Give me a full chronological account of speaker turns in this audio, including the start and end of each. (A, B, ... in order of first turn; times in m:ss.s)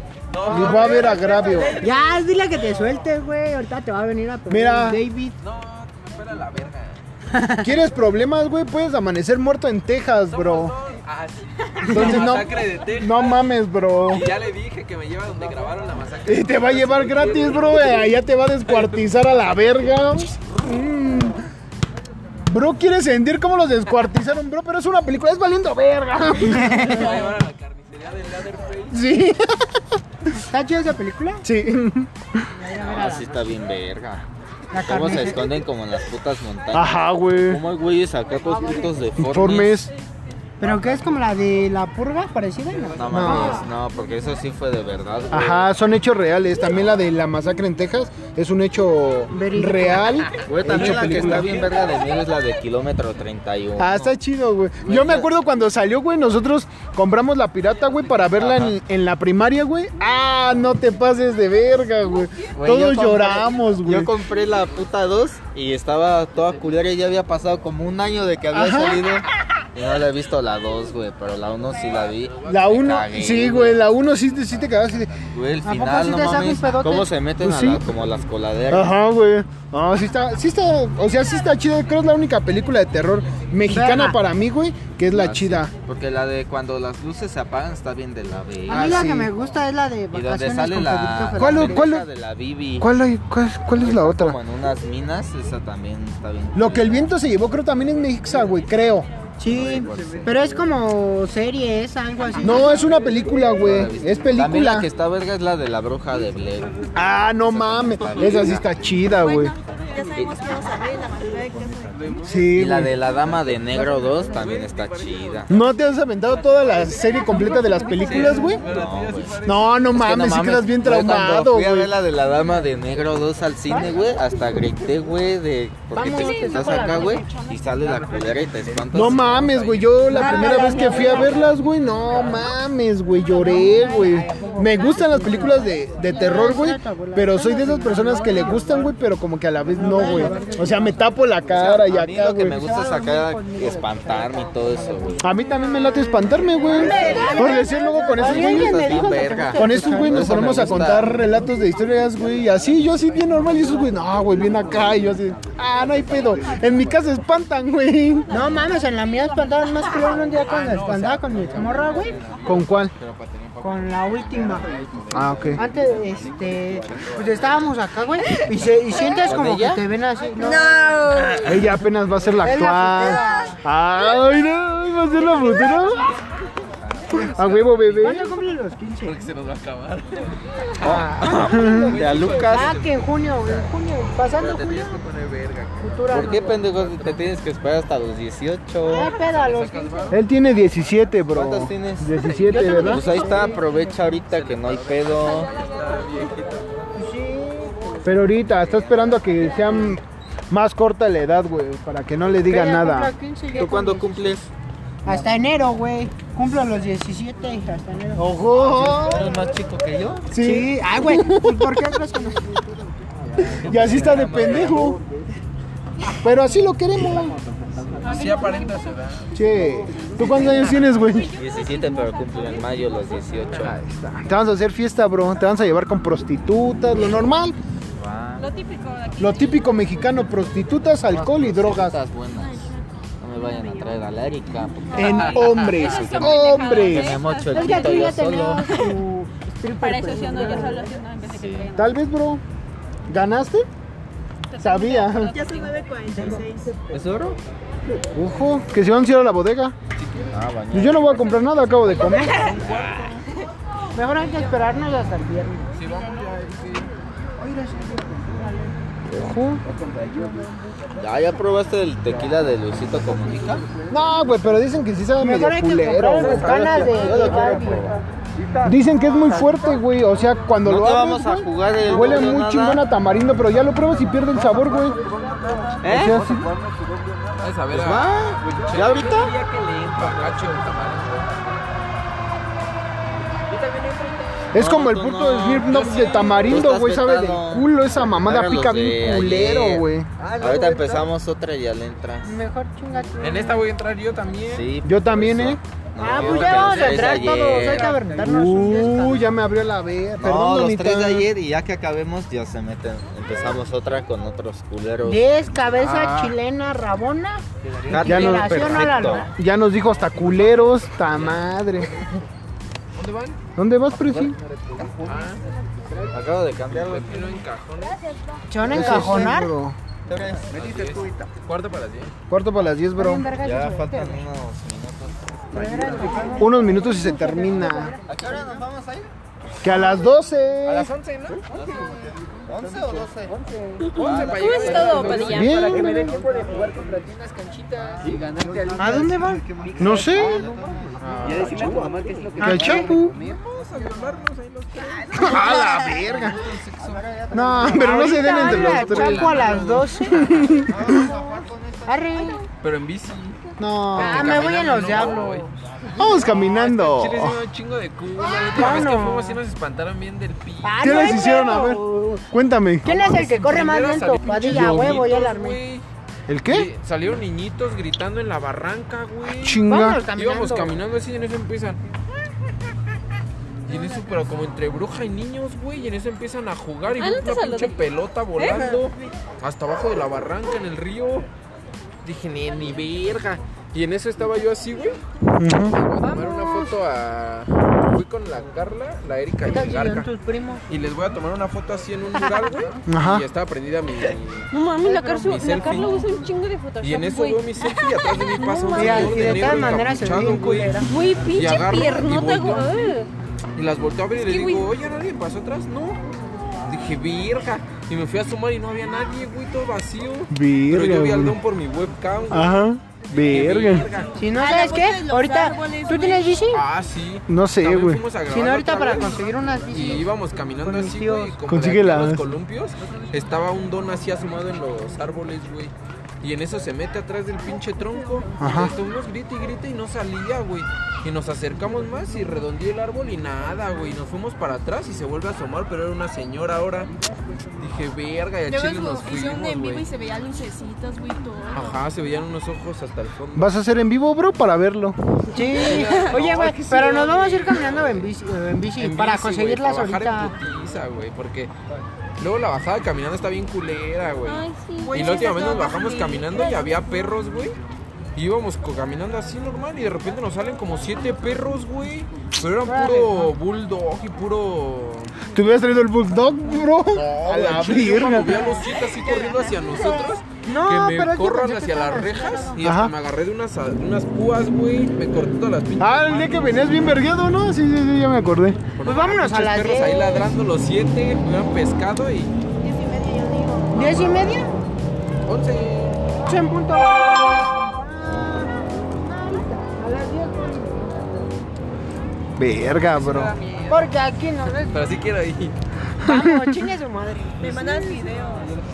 0:00.3-0:02.1 A
0:00.4-0:01.8 B
0:01.8-0:05.4 C
0:04.5-0:05.0 B
0:05.4-0:07.0 A
0:07.3-0:07.7 C
0:07.6-0:10.8 B
0:10.3-0:13.4 A
0:11.8-0:12.1 C
0:11.9-0:14.3 B
0:14.1-0:18.1 A
0:16.2-0:21.4 B
0:18.7-0:19.0 A
0:22.4-0:26.8 B
0:26.4-0:29.0 A
0:26.5-0:27.2 C
0:28.9-0:30.0 B
0:30.4-0:31.4 C
0:31.4-0:32.5 B
0:32.5-0:33.3 C
0:32.8-0:34.2 D
0:34.7-0:35.5 C
0:34.8-0:39.9 D
0:36.7-0:37.6 B
0:39.2-0:39.9 B
0:40.6-0:43.7 C
0:42.9-0:45.7 D
0:43.1-0:43.6 B
0:45.3-0:51.7 B
0:49.3-0:50.2 C
0:50.4-0:54.1 D
0:50.8-0:51.4 A
0:53.8-1:04.1 B
0:54.8-0:55.3 D
0:57.9-0:58.3 A
0:58.4-0:58.7 D
1:02.6-1:13.8 D
1:08.5-1:09.1 B
1:11.8-1:13.0 A
1:12.4-1:15.2 B
1:14.2-1:15.3 A
1:15.3-1:18.9 D
1:15.6-1:17.1 C
1:17.4-1:17.8 B
1:18.7-1:25.7 B
1:23.7-1:24.2 C
1:25.1-1:29.1 D
1:28.7-1:29.3 B
1:28.7-1:31.9 C
1:30.1-1:32.9 D
1:31.4-1:32.1 B
1:32.8-1:34.4 B
1:33.8-1:37.1 D
1:36.5-1:39.1 B
1:39.4-1:42.8 C
1:39.4-1:40.5 D
1:42.4-1:44.9 B
1:43.6-1:46.9 D
1:46.9-1:49.5 B
1:47.4-1:48.7 D
1:49.0-1:52.2 E
1:50.1-1:50.6 D
1:52.0-1:52.5 A
1:52.2-1:52.9 B
1:52.5-1:55.5 D
1:53.5-1:55.5 A
1:55.5-1:58.6 B
1:57.5-1:58.6 F
1:57.9-1:59.9 A
1:58.6-1:59.4 D
1:59.4-2:01.9 B
1:59.9-2:09.4 D
2:05.9-2:07.3 C
2:06.0-2:07.9 F
2:07.8-2:10.4 A
2:08.9-2:22.6 B
2:10.1-2:11.3 C
2:10.2-2:11.1 F
2:13.3-2:18.9 C
2:19.7-2:20.9 C
2:21.5-2:25.3 D
2:22.5-2:25.2 C
2:25.2-2:29.0 B
2:26.6-2:30.6 C
2:26.9-2:27.4 D
2:28.1-2:31.2 D
2:29.5-2:38.4 B
2:38.3-2:42.2 C
2:40.4-2:47.5 A
2:41.7-2:42.5 D
2:42.4-2:42.9 B
2:43.6-2:44.7 C
2:45.1-2:45.6 B
2:45.5-2:50.7 C
2:49.0-2:49.8 D
2:50.4-2:51.5 E
2:51.4-2:56.0 B
2:52.4-2:53.6 C
2:57.1-2:58.2 A
2:57.1-2:58.3 B
2:58.0-2:59.3 C
2:59.0-3:02.9 A
3:00.8-3:03.0 D
3:00.9-3:01.5 C
3:01.2-3:02.0 B
3:02.5-3:05.0 C
3:04.4-3:07.2 A
3:05.8-3:06.6 C
3:06.1-3:09.1 D
3:08.8-3:10.2 C
3:09.2-3:10.2 A
3:10.1-3:13.3 B
3:11.3-3:15.5 D
3:12.5-3:13.6 C
3:13.1-3:16.6 A
3:15.2-3:16.4 F
3:16.9-3:18.0 C
3:18.0-3:23.1 B
3:22.4-3:24.3 C
3:23.5-3:24.5 D
3:25.0-3:28.4 C
3:28.2-3:29.4 B
3:28.5-3:30.3 D
3:30.3-3:31.9 B
3:30.4-3:32.6 C
3:33.4-3:34.8 D
3:33.6-3:35.0 B
3:33.7-3:34.7 A
3:36.2-3:37.4 B
3:38.0-3:39.4 A
3:38.0-3:38.9 F
3:39.3-3:41.3 B
3:40.6-3:43.1 F
3:41.3-3:43.8 D
3:43.6-3:47.6 B
3:48.0-3:48.5 D
3:48.4-3:49.8 F
3:49.2-3:52.0 B
3:51.1-3:58.8 D
3:52.3-3:54.0 E
3:54.9-3:57.2 B
3:55.1-3:56.1 A
3:55.6-3:58.8 F
3:57.5-4:00.9 C
3:59.8-4:01.9 F
4:01.2-4:01.7 D
4:01.7-4:02.4 B
4:03.1-4:03.7 B
4:04.5-4:05.7 F
4:04.6-4:05.3 B
4:05.2-4:06.8 E
4:06.1-4:06.4 C
4:06.2-4:07.4 D
4:08.1-4:09.7 B
4:10.0-4:10.4 A
4:10.3-4:11.4 D
4:10.7-4:12.4 B
4:12.0-4:12.5 C
4:12.4-4:13.1 D
4:13.9-4:15.8 C
4:15.7-4:16.9 A
4:17.4-4:18.7 C
4:19.1-4:19.6 B
4:19.7-4:20.4 A
4:20.9-4:23.6 D
4:23.9-4:26.5 B
4:25.2-4:27.9 C
4:26.2-4:27.8 A
4:26.3-4:28.0 D
4:28.3-4:28.7 A
4:28.6-4:35.0 B
4:30.6-4:32.8 D
4:34.3-4:41.6 A
4:35.8-4:36.2 D
4:35.8-4:36.5 B
4:37.7-4:39.3 D
4:43.5-4:44.4 A
4:44.5-4:50.1 B
4:44.5-4:47.7 D
4:45.6-4:46.7 A
4:48.2-4:49.9 D
4:50.2-4:51.1 A
4:50.4-4:52.4 D
4:52.2-4:53.7 C
4:53.2-4:54.6 A
4:54.5-4:57.9 D
4:54.8-4:55.6 B
4:56.0-4:59.3 C
4:56.1-4:58.0 A
4:58.2-5:01.3 B
5:00.2-5:05.3 D
5:05.0-5:07.4 C
5:05.8-5:06.3 A
5:07.6-5:08.1 A
5:07.9-5:09.3 D
5:08.0-5:09.3 C
5:08.0-5:11.9 B
5:12.9-5:13.4 A
5:13.6-5:14.4 B
5:13.9-5:16.1 A
5:16.1-5:17.4 D
5:16.7-5:18.0 A
5:18.5-5:19.5 C
5:18.6-5:19.8 B
5:18.6-5:19.3 D
5:20.1-5:21.2 D
5:20.5-5:22.1 A
5:22.3-5:23.3 B
5:23.0-5:24.2 C
5:23.3-5:26.4 D
5:25.5-5:28.5 C
5:25.9-5:26.3 A
5:26.4-5:27.9 B
5:28.0-5:29.1 D
5:29.6-5:30.9 B
5:30.6-5:50.7 A
5:31.5-5:31.8 D
5:32.4-5:36.4 D
5:33.8-5:36.0 F
5:35.3-5:35.9 B
5:38.0-5:41.9 D
5:38.8-5:39.4 C
5:39.8-5:40.4 B
5:41.0-5:41.6 B
5:42.4-5:43.1 B
5:42.4-5:42.9 C
5:45.1-5:46.4 B
5:45.2-5:45.7 D
5:46.8-5:48.2 D
5:47.3-5:49.6 B
5:47.6-5:51.2 C
5:50.1-5:51.0 B
5:50.4-5:52.3 D
5:51.8-5:52.4 C
5:52.1-5:52.4 E
5:52.6-6:01.2 A
5:53.6-5:54.4 B
5:54.0-5:55.5 C
5:55.9-5:57.4 B
5:58.3-5:59.4 C
6:00.6-6:02.3 C
6:00.8-6:03.7 B
6:02.8-6:05.6 C
6:03.2-6:05.8 A
6:04.4-6:05.0 B
6:06.3-6:06.7 B
6:06.5-6:11.8 A
6:09.3-6:10.0 B
6:09.7-6:10.8 C
6:13.6-6:21.3 A
6:17.0-6:17.8 F
6:18.4-6:18.8 F
6:22.0-6:25.0 A
6:25.4-6:25.8 B
6:25.7-6:30.1 A
6:26.2-6:26.6 F
6:29.5-6:30.6 C
6:30.7-6:34.5 A
6:32.9-6:33.2 B
6:34.5-6:39.4 F
6:34.8-6:36.0 C
6:35.2-6:36.1 A
6:36.8-6:42.9 A
6:38.7-6:40.9 C
6:40.8-6:43.1 F
6:43.5-6:46.0 A
6:44.2-6:44.7 F
6:46.6-6:54.3 A
6:50.3-6:51.4 B
6:52.3-6:53.9 B
6:54.2-6:56.6 C
6:54.3-6:56.4 E
6:56.5-7:16.9 A
6:57.3-6:58.0 B
6:58.3-7:00.1 C
7:00.6-7:01.4 C
7:01.5-7:02.3 B
7:08.4-7:08.7 B
7:17.6-7:19.8 A
7:18.5-7:21.8 E
7:21.5-7:23.5 A
7:23.4-7:25.0 B
7:25.3-7:30.3 C
7:25.4-7:28.1 A
7:25.6-7:26.2 E
7:28.8-7:31.5 A
7:32.2-7:37.6 A
7:34.2-7:37.0 F
7:34.8-7:35.9 E
7:38.1-7:45.2 A
7:42.6-7:43.3 C
7:45.3-7:48.4 B
7:46.9-7:56.9 A
7:49.0-7:50.1 E
7:50.3-7:52.6 C
7:52.6-7:52.9 B
7:55.8-7:58.6 B
7:58.8-8:02.3 A
7:58.8-8:00.3 C
8:02.6-8:04.4 E
8:03.7-8:04.6 C
8:05.2-8:06.0 A
8:06.2-8:11.0 C
8:12.4-8:13.3 B
8:12.7-8:14.0 A
8:13.7-8:15.0 C
8:14.6-8:15.5 A
8:16.0-8:17.8 C
8:16.0-8:16.6 B
8:17.4-8:18.6 E